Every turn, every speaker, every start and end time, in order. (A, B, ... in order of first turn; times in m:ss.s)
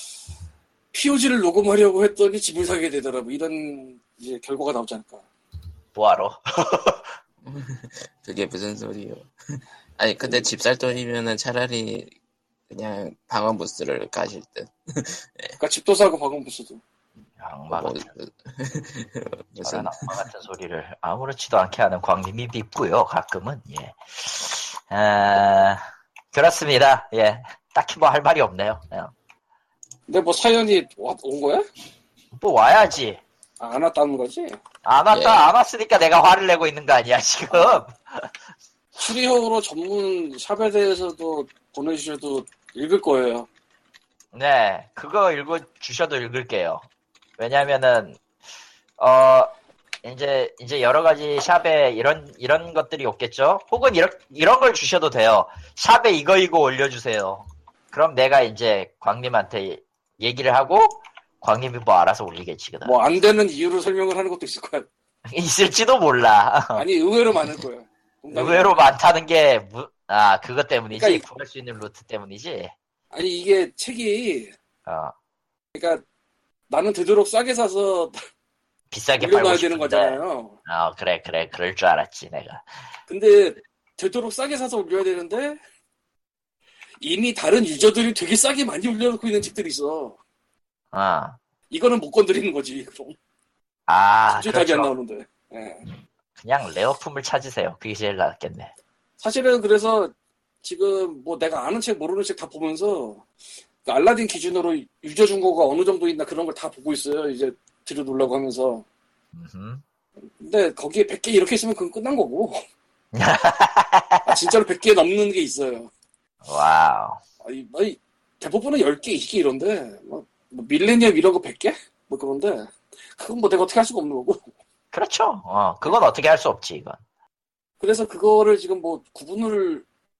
0:00.9-0:05.2 A
0:05.9-0:07.1 B
0:07.4-0:12.1 C
0:12.7-0:15.6 C
0:15.6-0:16.8 A
0:17.4-0:18.0 B
0:17.7-0:20.0 C
0:19.6-0:25.8 B
0:26.3-0:29.1 B
0:30.1-0:31.6 A
0:32.3-0:33.2 B
0:33.6-0:34.6 A
0:34.8-0:38.3 B
0:35.1-0:35.5 C
0:37.5-0:37.8 A
0:39.0-0:43.5 A
0:44.3-0:46.8 B
0:47.4-0:48.2 B
0:49.0-0:49.5 B
0:50.0-1:03.0 B
1:02.8-1:04.9 A
1:05.3-1:06.8 B
1:06.8-1:08.7 A
1:08.3-1:12.7 B
1:10.9-1:11.2 A
1:13.1-1:14.5 A
1:14.8-1:15.1 B
1:15.7-1:16.0 A
1:16.7-1:18.2 A
1:18.9-1:22.6 B
1:19.2-1:20.6 A
1:23.1-1:25.6 A
1:27.0-1:30.2 A
1:30.9-1:31.4 B
1:31.7-1:33.2 A
1:33.9-1:34.9 B
1:34.3-1:35.8 A
1:36.4-1:38.7 B
1:39.2-1:43.2 A
1:43.8-1:48.8 A
1:49.3-1:49.8 B
1:50.4-1:52.6 A
1:53.1-1:54.5 B
1:54.2-1:55.9 A
1:56.4-1:57.2 B
1:57.4-2:04.5 A
2:04.9-2:07.0 B
2:07.8-2:09.8 A